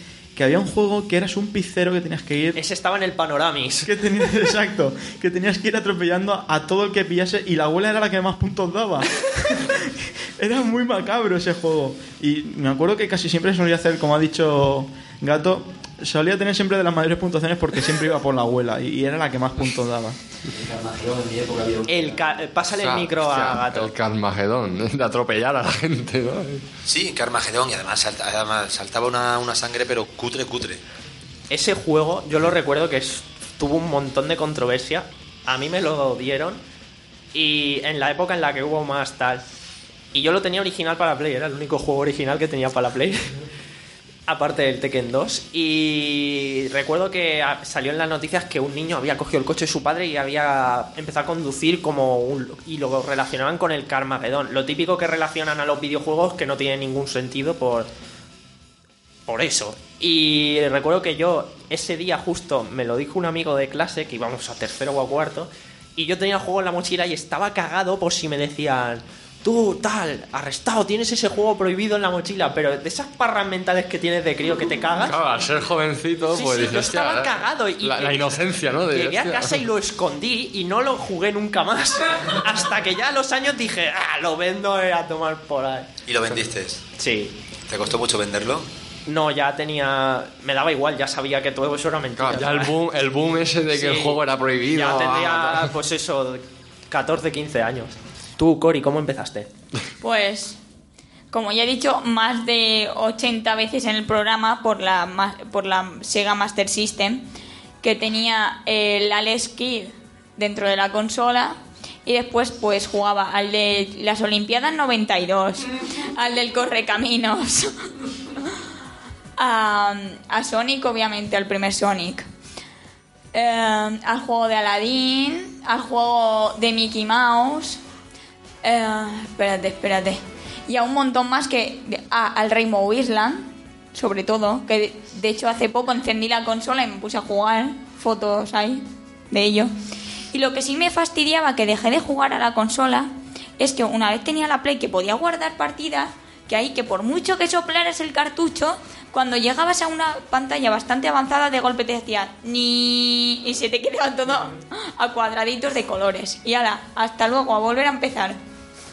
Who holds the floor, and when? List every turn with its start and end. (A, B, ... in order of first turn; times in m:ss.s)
0:00.3-0:02.6 A
0:02.5-0:03.9 B
0:03.8-0:20.2 A
0:21.8-0:23.9 B
0:22.8-0:26.7 C
0:26.8-0:30.8 D
0:31.5-0:36.6 B
0:37.3-0:39.4 B
0:40.1-0:43.3 B
0:44.3-0:57.9 B
0:59.3-1:15.2 B
1:15.0-1:19.6 C
1:16.3-1:25.9 B
1:26.0-1:26.8 D
1:27.0-1:27.3 B
1:27.7-1:28.7 D
1:29.1-1:32.7 B
1:32.2-1:35.7 C
1:33.7-1:34.2 B
1:34.7-1:39.5 B
1:40.0-1:40.6 E
1:41.3-1:47.2 E
1:47.8-1:57.8 E
1:59.4-2:02.2 E
2:03.3-2:07.8 E
2:08.6-2:19.7 E
2:20.3-2:38.4 E